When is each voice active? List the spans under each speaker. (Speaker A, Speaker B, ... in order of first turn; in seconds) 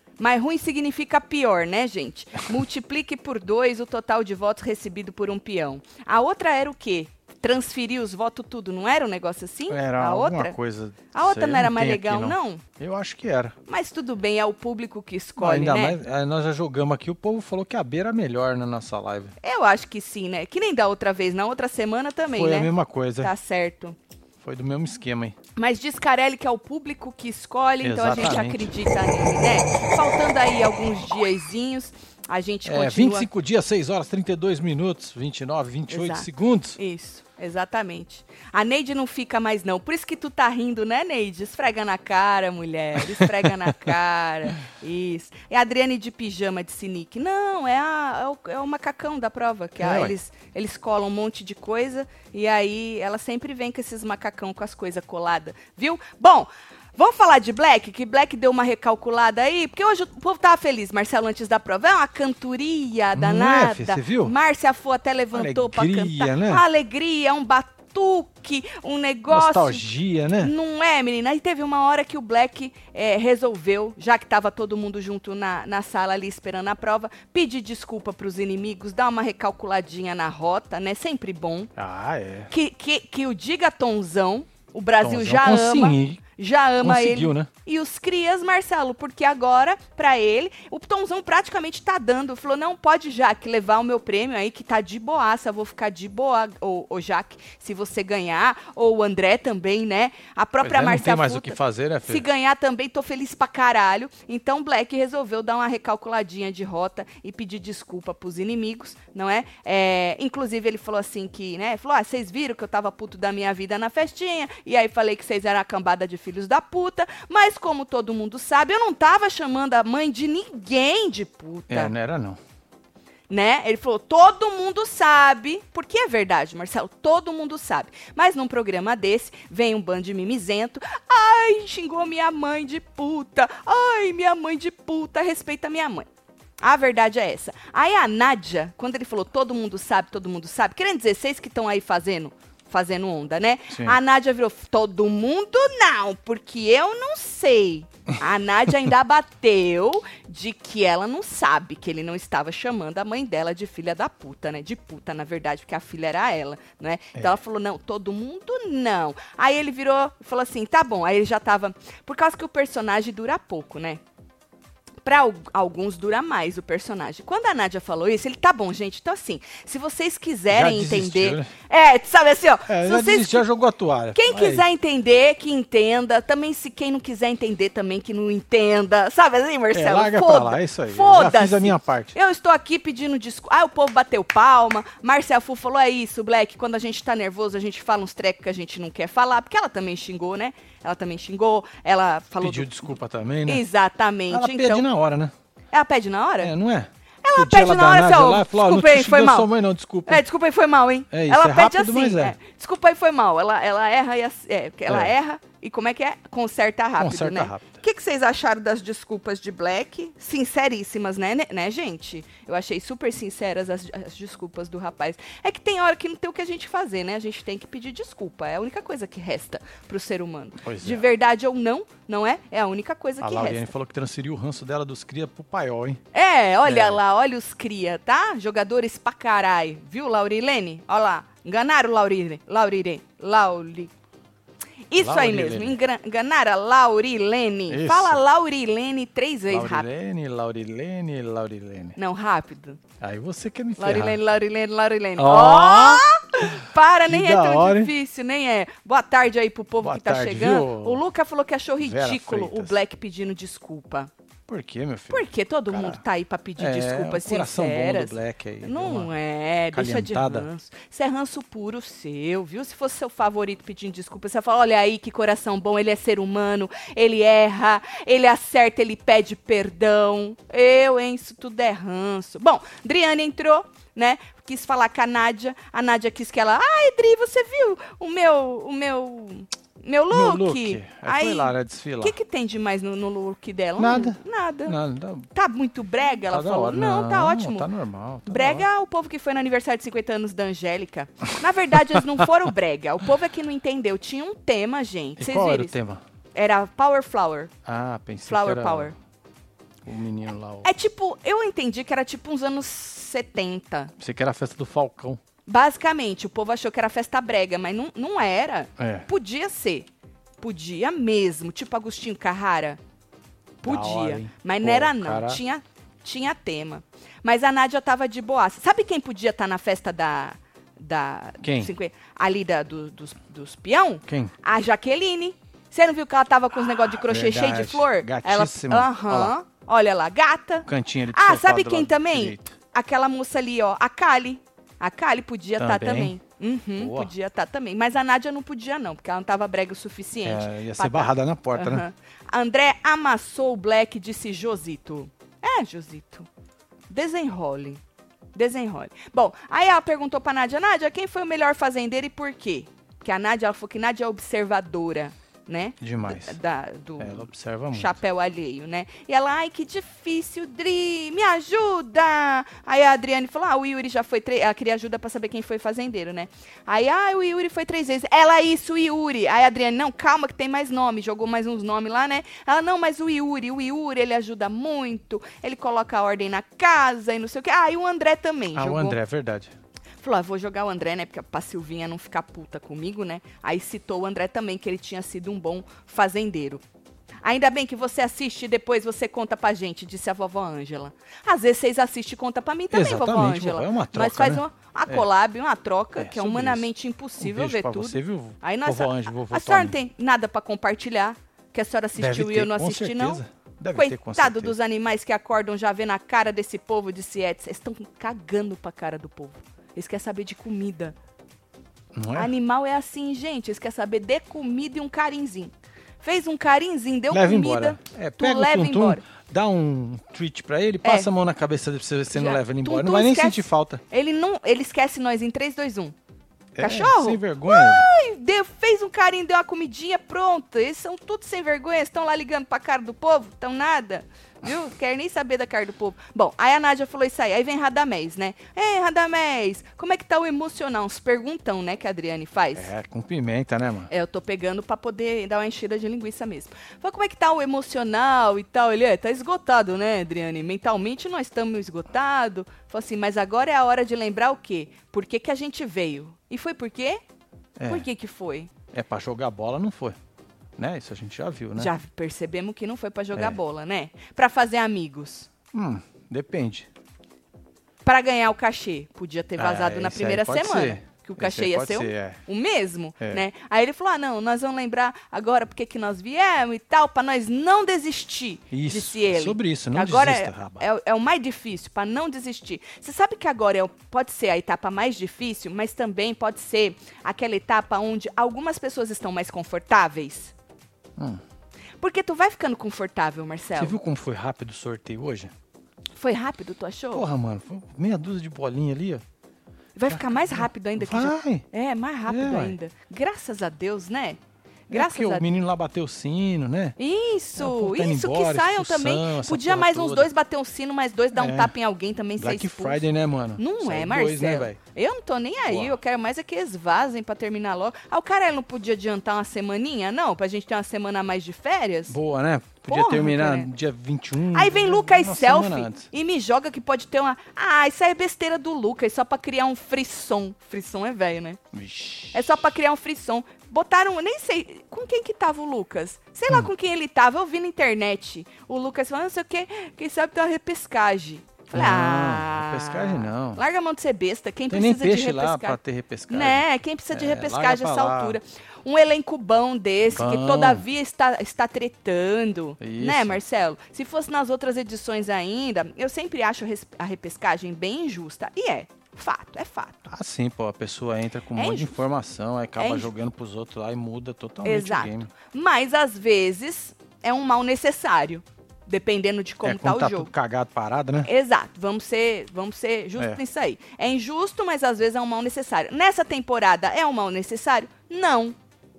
Speaker A: 0.2-10.6, 11.1-12.6, 13.7-16.0, 19.4-22.7, 23.2-24.0, 25.6-33.3, 35.9-69.8, 70.4-81.7, 82.5-121.9, 123.3-136.1, 136.6-164.0, 165.0-173.5, 174.1-192.9, 193.5-194.9, 195.7-196.5, 197.2-199.5, 200.1-223.6, 226.1-233.9, 234.9-239.9, 242.0-242.8, 243.8-254.1, 255.1-284.8, 285.3-287.7, 288.3-295.7, 296.4-297.5, 298.3-298.9, 300.6-303.9, 305.5-309.9, 310.4-312.8, 313.6-346.3, 346.9-347.8, 348.4-379.0, 380.0-386.6, 387.2-403.2, 403.8-410.9, 412.1-419.0, 420.8-421.1, 422.1-425.9, 426.6-442.7, 443.9-457.0, 457.7-458.5, 461.6-465.3, 467.9-490.3, 491.8-493.8, 496.0-497.1, 499.8-505.3, 506.8-512.8, 513.4-522.0, 522.7-523.5, 524.3-531.4, 532.1-545.6, 546.1-559.9, 561.4-561.8, 562.6-562.9, 564.4-570.1, 571.0-578.4
Speaker B: 9.7-13.6, 15.4-19.3, 22.3-23.3, 24.4-25.4, 27.8-28.7, 32.7-36.8, 43.0-43.9, 49.8-50.1, 63.1-64.3, 65.3-66.6, 69.3-70.5, 81.8-82.5, 85.0-86.2, 86.8-87.5, 100.6-102.3, 121.7-122.4, 143.7-144.0, 170.5-171.5, 172.7-174.6, 179.7-182.2, 192.4-193.6, 194.3-195.3, 196.4-200.2, 201.1-202.3, 204.9-205.1, 207.0-207.8, 220.6-221.0, 223.2-226.0, 226.7-227.0, 235.0-235.8, 237.7-238.2, 239.5-242.0, 243.0-244.2, 245.2-246.6, 247.1-247.9, 249.8-251.0, 251.8-252.8, 254.5-256.0, 256.6-259.1, 259.7-260.5, 280.1-282.2, 283.8-285.3, 286.3-288.7, 295.2-296.0, 297.7-298.9, 299.9-300.7, 304.0-305.2, 308.8-309.1, 313.6-315.4, 321.4-321.7, 324.1-324.3, 326.9-329.3, 330.7-332.6, 335.6-336.2, 336.8-337.1, 340.2-341.9, 355.8-356.4, 357.0-358.0, 378.6-379.5, 392.7-395.1, 396.0-399.8, 402.0-404.6, 411.9-412.3, 417.1-423.8, 426.6-427.9, 442.6-443.9, 457.6-457.9, 458.7-460.0, 460.6-461.7, 465.5-466.7, 469.4-472.2, 478.5-480.6, 493.6-495.3, 496.9-499.0, 499.9-501.5, 502.1-502.6, 504.7-506.8, 507.4-510.1, 511.1-511.5, 512.2-514.6, 515.5-515.8, 521.9-525.9, 531.5-532.4, 541.5-543.4, 544.5-548.2, 550.0-550.6, 552.6-553.2, 559.9-565.1, 569.4-571.1